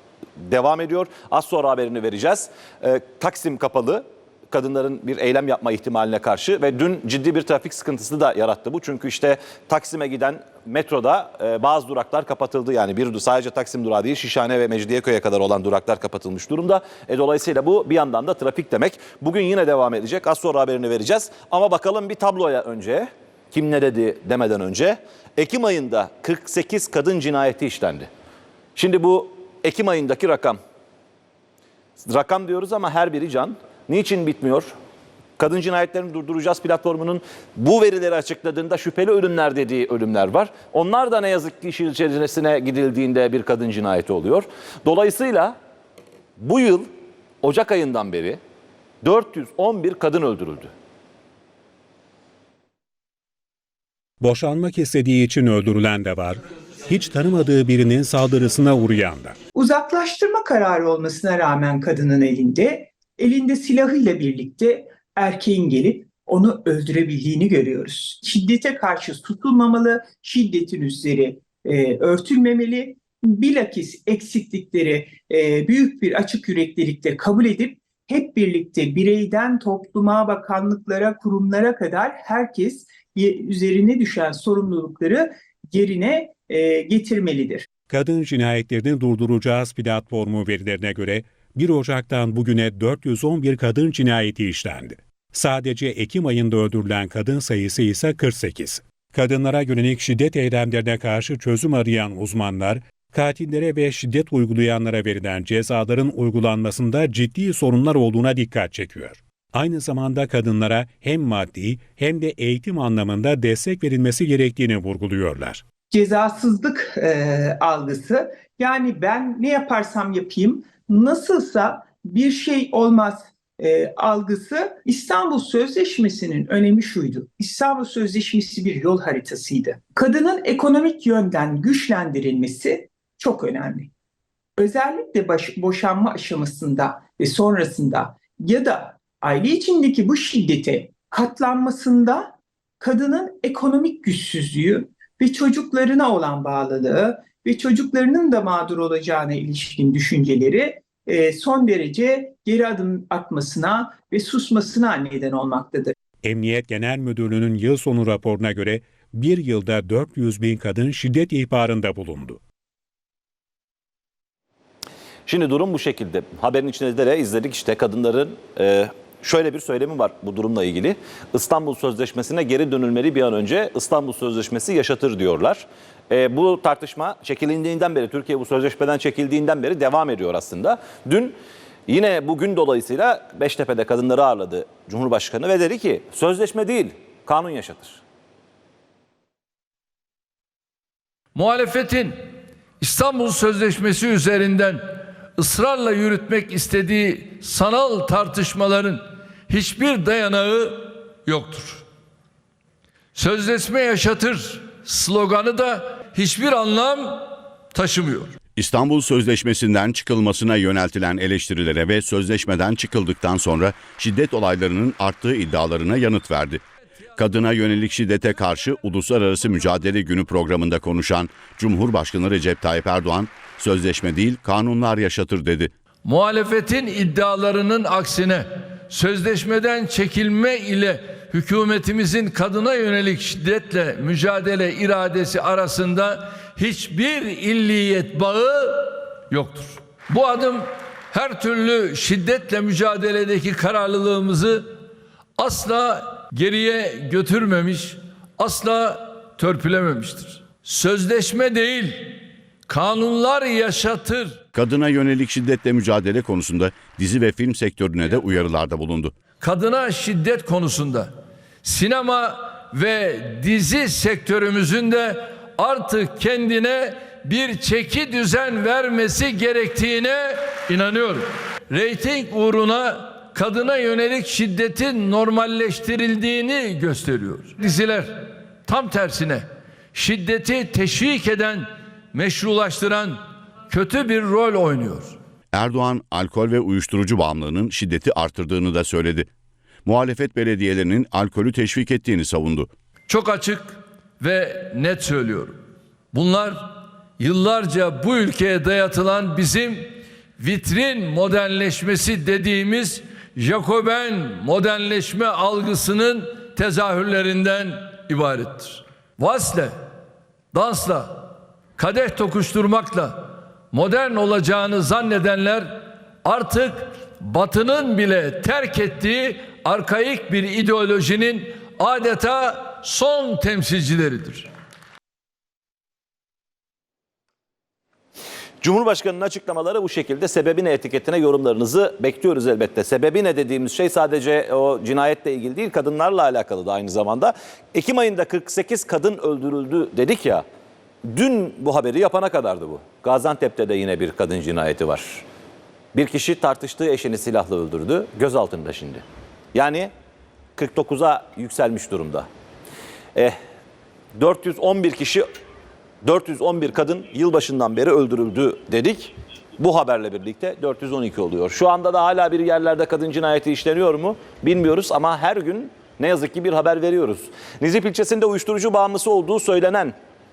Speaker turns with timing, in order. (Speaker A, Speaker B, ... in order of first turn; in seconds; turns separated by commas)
Speaker A: 0.4-28.1, Speaker A: 28.8-30.6, Speaker A: 32.0-34.7, Speaker A: 35.4-45.5, Speaker A: 46.4-46.9, Speaker A: 47.4-48.4, Speaker A: 49.0-50.7, Speaker B: 54.2-59.3, Speaker C: 59.5-87.6, Speaker B: 87.9-115.6, Speaker C: 115.9-133.9, Speaker C: 134.6-155.9, Speaker B: 156.2-162.4, Speaker A: 165.3-181.3, Speaker A: 181.9-188.0, Speaker D: 191.3-192.1, Speaker D: 192.8-201.8, Speaker D: 203.1-208.3, Speaker E: 208.6-216.6, Speaker E: 217.2-225.7, Speaker D: 226.0-244.7, Speaker D: 245.4-254.4, Speaker E: 254.5-259.1, Speaker D: 259.4-261.1, Speaker D: 261.6-285.1, Speaker E: 285.5-289.3, Speaker E: 289.8-292.7, Speaker D: 293.1-295.5, Speaker D: 296.1-309.8, Speaker D: 310.5-324.5, Speaker A: 328.6-340.4, Speaker A: 341.0-345.2, Speaker A: 345.9-349.9, Speaker A: 350.6-352.3, Speaker A: 354.1-355.2, Speaker A: 356.0-369.9